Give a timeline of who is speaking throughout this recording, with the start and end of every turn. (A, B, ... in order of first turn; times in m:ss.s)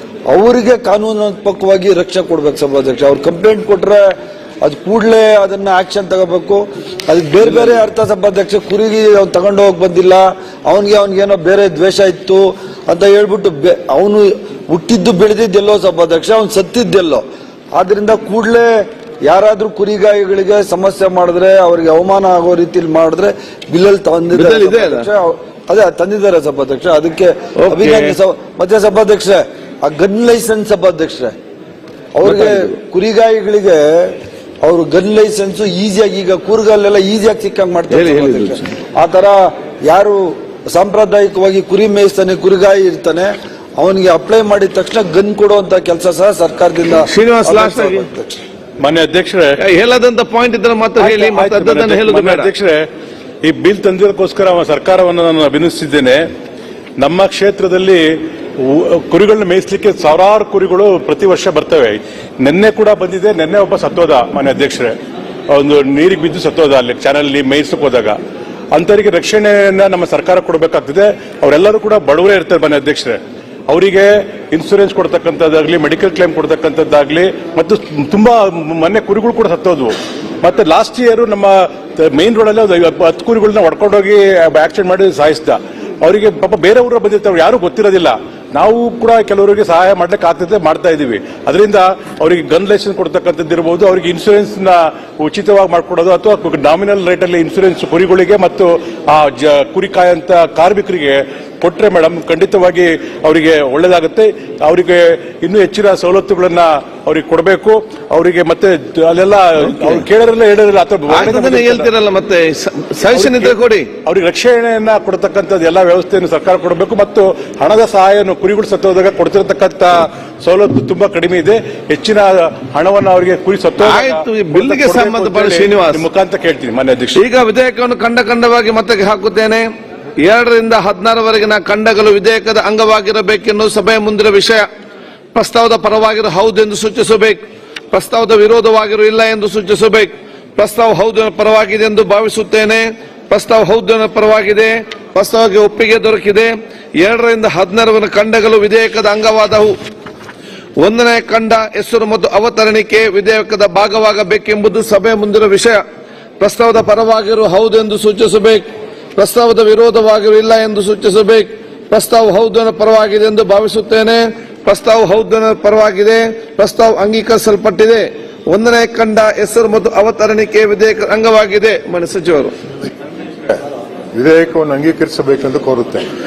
0:00.3-0:31.3 A
0:24.3-0:25.1 B
0:27.6-0:28.2 B
0:32.1-0:48.4 A
0:32.2-0:32.7 B
0:37.9-0:38.6 B
0:46.9-0:48.1 B
0:48.8-0:49.6 C
0:49.6-0:52.5 B
0:51.0-0:52.9 C
0:53.4-0:56.2 C
0:57.0-1:05.0 C
1:05.5-1:08.2 C
1:08.7-1:51.9 C
1:51.1-1:53.8 B
1:53.1-2:07.2 C
2:03.8-2:06.0 B
2:07.2-2:09.6 B
2:10.2-2:14.7 B
2:15.3-2:17.4 B
2:17.9-2:29.7 B
2:30.8-2:35.8 B
2:36.4-2:52.5 B
2:54.1-2:56.1 D